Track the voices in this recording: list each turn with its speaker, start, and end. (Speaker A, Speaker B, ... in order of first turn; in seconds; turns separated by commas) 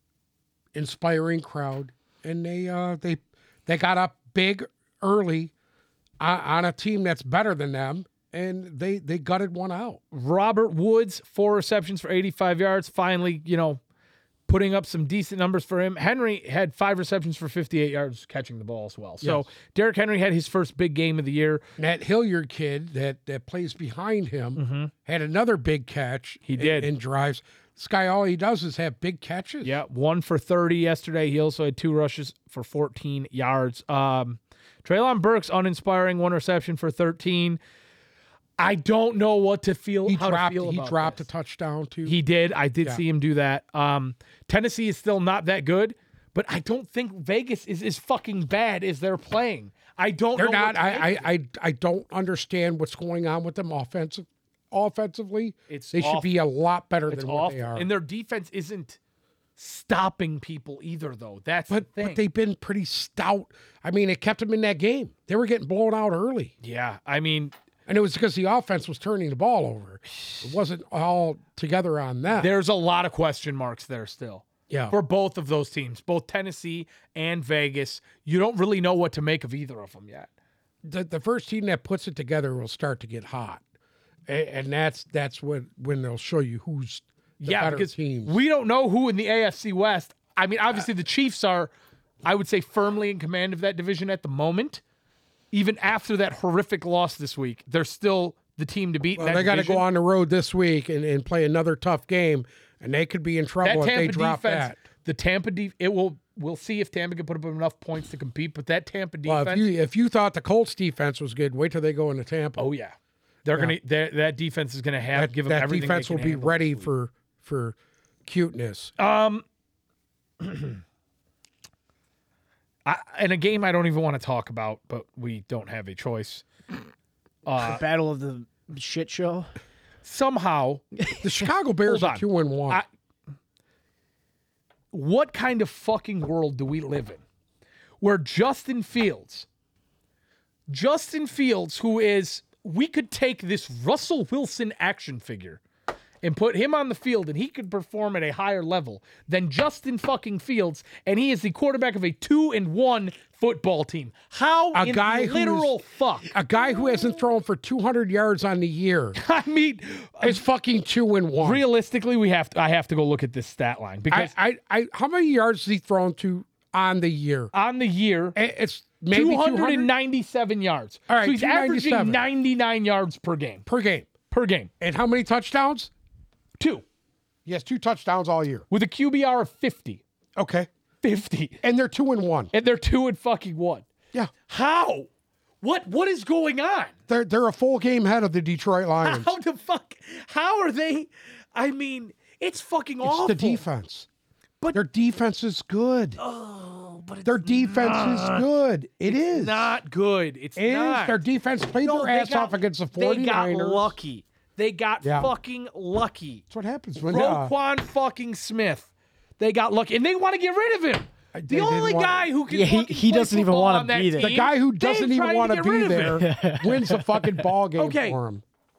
Speaker A: 0.7-5.5, Speaker A: 6.2-10.0, Speaker B: 10.1-13.8, Speaker B: 14.5-21.6, Speaker A: 19.2-19.4, Speaker A: 21.8-29.8, Speaker B: 24.6-24.9, Speaker B: 26.5-26.9, Speaker B: 29.6-37.6, Speaker B: 38.6-41.2, Speaker A: 40.1-42.2, Speaker B: 42.0-51.3, Speaker A: 50.4-57.9, Speaker B: 55.7-56.3, Speaker B: 57.1-59.0, Speaker B: 59.6-62.2, Speaker A: 61.7-66.5, Speaker B: 66.6-67.5, Speaker A: 67.9-72.5, Speaker B: 72.3-80.3, Speaker A: 74.7-74.9, Speaker A: 80.8-83.6, Speaker A: 84.3-88.4, Speaker B: 87.4-91.7, Speaker B: 92.2-94.8, Speaker B: 95.5-99.8, Speaker A: 99.2-104.8, Speaker B: 103.6-109.7, Speaker A: 109.2-112.7, Speaker B: 112.6-116.9, Speaker A: 115.1-118.9, Speaker B: 119.0-119.4, Speaker B: 120.4-120.8, Speaker B: 122.8-126.4, Speaker B: 127.5-127.8, Speaker C: 127.6-129.5, Speaker B: 130.0-130.8, Speaker A: 131.2-132.8, Speaker B: 131.8-132.8, Speaker B: 134.9-137.2, Speaker B: 138.0-139.5, Speaker B: 140.7-145.6, Speaker B: 146.2-156.3, Speaker A: 154.7-155.7, Speaker A: 156.3-159.2, Speaker B: 159.2-160.4, Speaker A: 160.2-161.6, Speaker B: 161.4-164.3, Speaker A: 164.1-167.5, Speaker B: 167.5-168.3, Speaker A: 168.3-169.9, Speaker B: 169.1-173.6, Speaker A: 171.1-172.2, Speaker A: 173.7-174.1, Speaker B: 174.3-174.7, Speaker A: 174.8-175.9, Speaker B: 176.6-176.8, Speaker A: 177.4-178.7, Speaker B: 178.7-180.0, Speaker A: 180.3-180.7, Speaker B: 181.0-181.6, Speaker A: 181.6-182.5, Speaker B: 182.5-183.9, Speaker B: 184.5-185.1, Speaker B: 185.6-186.9, Speaker A: 187.1-189.3, Speaker B: 189.0-193.6, Speaker A: 193.0-194.1, Speaker A: 194.7-196.2, Speaker B: 196.2-198.4, Speaker A: 197.2-199.8, Speaker B: 199.1-201.2, Speaker A: 200.6-203.9, Speaker B: 201.8-206.4, Speaker A: 205.0-205.3, Speaker A: 206.5-207.5, Speaker B: 207.0-216.2, Speaker A: 211.3-212.3, Speaker C: 212.5-214.3, Speaker A: 214.2-218.4, Speaker C: 216.2-217.4, Speaker B: 217.8-218.2